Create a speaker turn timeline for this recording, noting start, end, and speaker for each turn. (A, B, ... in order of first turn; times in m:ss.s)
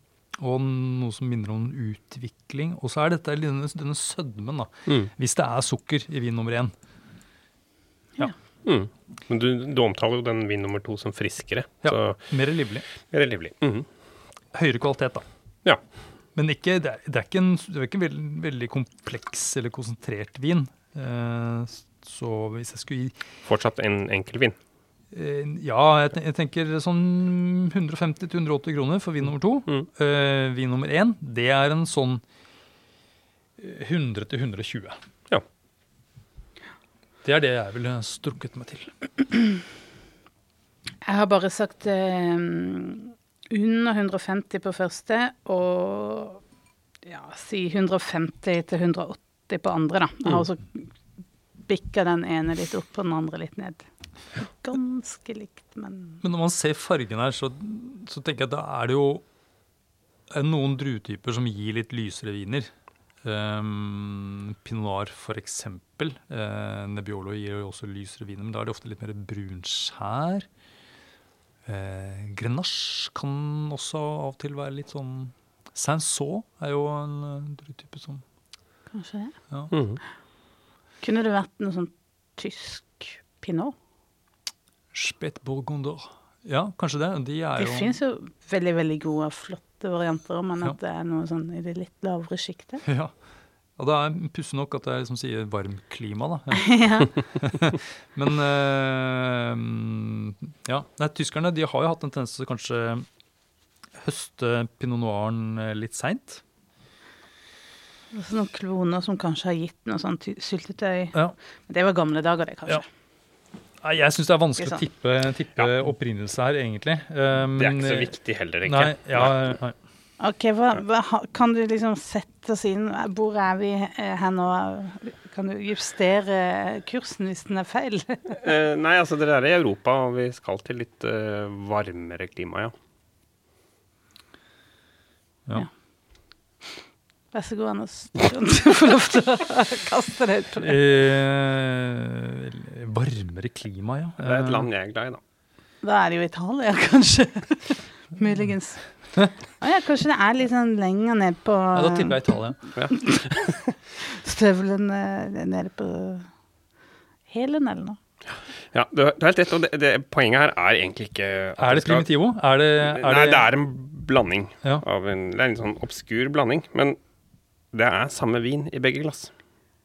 0:00.4-0:06.7 A
0:08.6-0:12.2 B
0:11.8-0:12.9 A
0:13.1-0:13.9 B
0:14.5-0:15.3 A
0:16.4-0:23.2 A
0:23.4-0:24.6 B
0:25.1-0:32.2 A
0:33.6-0:35.0 A
0:37.2-0:38.9 A
0:41.0-0:46.4 C
0:47.0-0:50.9 C
0:51.6-0:56.2 C
0:56.2-0:59.2 A
1:00.3-1:02.7 A
1:03.2-1:10.5 A
1:11.7-1:18.2 A
1:18.9-1:19.4 C
1:19.7-1:20.0 B
1:21.0-1:23.7 C
1:24.9-1:28.0 A
1:27.6-1:32.8 C
1:32.8-1:33.1 A
1:33.8-1:36.8 A
1:36.6-1:37.2 C
1:37.4-1:43.0 A
1:44.0-1:46.4 A
1:48.1-1:52.9 C
1:53.8-1:58.1 A
1:57.6-1:59.5 B
1:58.6-1:59.8 A
2:00.2-2:08.4 C
2:08.3-2:12.7 B
2:17.3-2:20.8 C
2:20.6-2:24.7 A
2:24.2-2:25.2 B
2:25.8-2:32.2 C
2:31.7-2:32.6 A
2:32.9-2:36.3 C
2:37.3-2:38.0 C
2:38.7-2:42.1 B
2:41.6-2:43.5 A
2:42.8-2:47.0 B
2:47.7-2:49.3 B